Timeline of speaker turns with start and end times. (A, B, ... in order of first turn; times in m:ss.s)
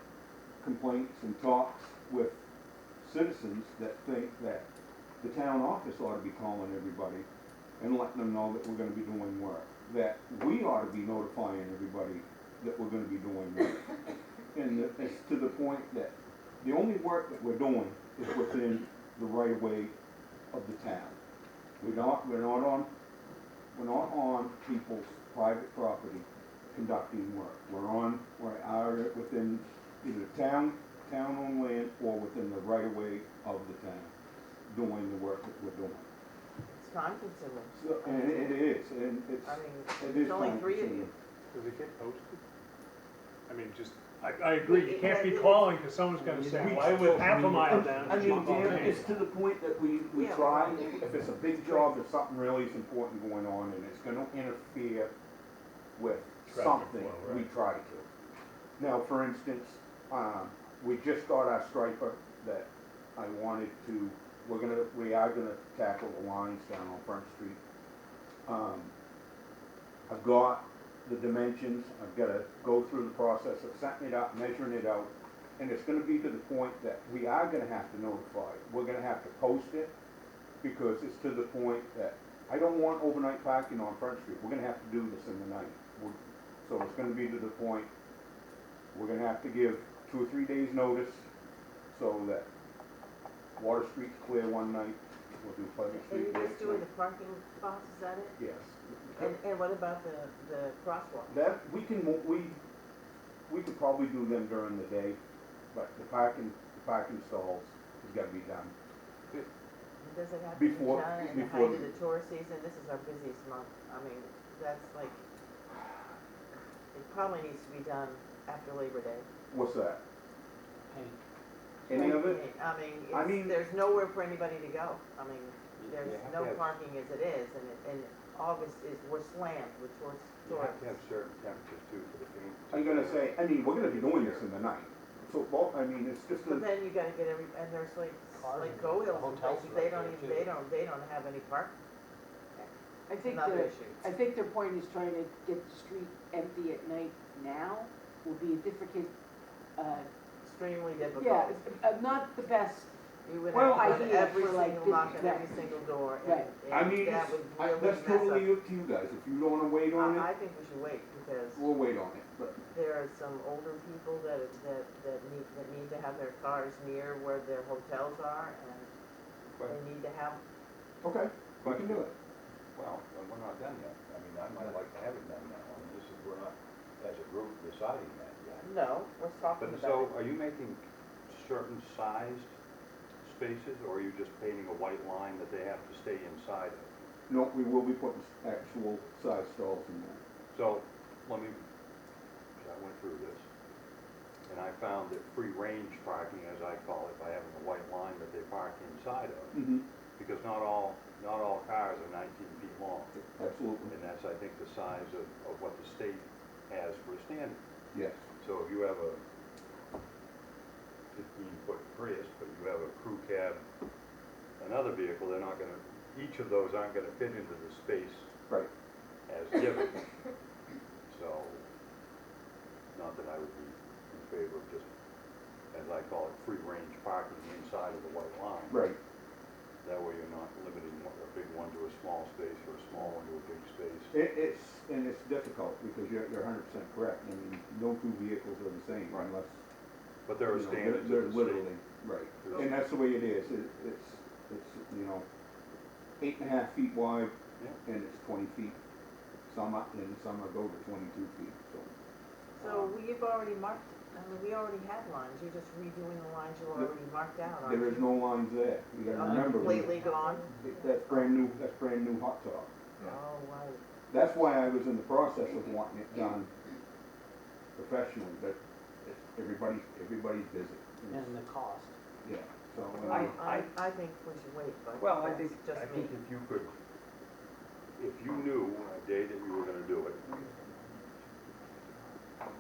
0:00.6-0:02.4 A
0:03.0-0:04.7 A
0:05.2-0:07.3 A
0:07.8-0:14.0 A
0:14.5-0:20.0 A
0:20.5-0:21.2 A
0:21.8-0:22.9 A
0:23.7-0:34.1 A
0:34.7-0:36.1 A
0:36.7-0:38.5 B
0:37.7-0:41.1 A
0:39.4-0:41.1 B
0:41.5-0:42.4 C
0:43.5-0:49.0 C
0:44.6-0:45.7 B
0:46.5-0:55.1 A
0:50.1-0:51.0 B
0:51.6-0:51.9 B
0:56.0-0:58.1 A
0:56.5-0:57.5 C
0:58.8-1:07.6 A
1:08.5-1:08.9 A
1:10.1-1:19.9 A
1:20.6-1:27.9 A
1:28.9-1:31.3 A
1:31.9-1:32.5 A
1:33.6-1:36.9 A
1:36.1-1:38.4 B
1:38.4-1:39.3 A
1:39.2-1:41.4 B
1:41.3-1:42.6 A
1:43.5-1:45.2 A
1:45.7-1:48.7 A
1:50.0-1:55.2 B
1:50.6-1:51.9 A
1:56.9-1:59.3 B
1:59.5-2:00.0 A
2:01.9-2:02.4 A
2:01.9-2:10.9 B
2:03.1-2:03.6 A
2:05.8-2:06.8 D
2:10.4-2:14.5 D
2:12.7-2:16.7 A
2:16.4-2:21.7 B
2:18.4-2:20.6 E
2:23.1-2:29.1 F
2:23.2-2:24.0 B
2:29.8-2:30.1 F
2:30.4-2:31.6 B
2:31.2-2:32.9 F
2:33.2-2:38.5 B
2:33.5-2:34.1 A
2:33.6-2:35.6 F
2:36.2-2:36.5 F
2:36.7-2:40.3 A
2:40.0-2:41.7 B
2:41.6-2:42.6 A
2:42.7-2:48.9 B
2:49.7-2:50.4 B
2:51.0-2:52.1 A
2:51.6-2:52.1 D
2:52.8-2:58.7 D
2:58.6-3:00.2 B
2:59.6-3:02.5 D
3:03.2-3:06.9 D
3:07.3-3:10.2 A
3:10.5-3:11.6 D
3:12.6-3:13.4 D
3:14.5-3:19.7 D
3:19.5-3:19.8 A
3:20.2-3:23.3 D
3:23.2-3:23.9 A
3:23.9-3:27.6 D
3:27.9-3:28.2 A
3:28.4-3:29.2 D
3:31.1-3:33.6 D
3:34.6-3:38.3 D
3:39.3-3:40.0 D
3:41.1-3:41.7 D
3:42.9-3:44.9 D
3:45.7-3:48.8 D
3:48.7-3:49.0 A
3:49.8-3:54.1 D
3:54.1-3:59.6 A
4:00.3-4:01.8 D
4:00.5-4:05.2 A
4:02.4-4:02.8 D
4:06.2-4:08.8 A
4:09.5-4:11.9 A
4:12.6-4:12.9 D
4:12.6-4:18.1 B
4:17.6-4:22.7 A
4:19.1-4:21.2 B
4:23.0-4:23.8 B
4:24.1-4:26.5 A
4:27.8-4:31.3 A
4:31.1-4:31.9 E
4:32.2-4:33.4 A
4:33.0-4:36.1 B
4:33.0-4:33.7 D
4:35.0-4:36.7 D
4:38.0-4:40.4 D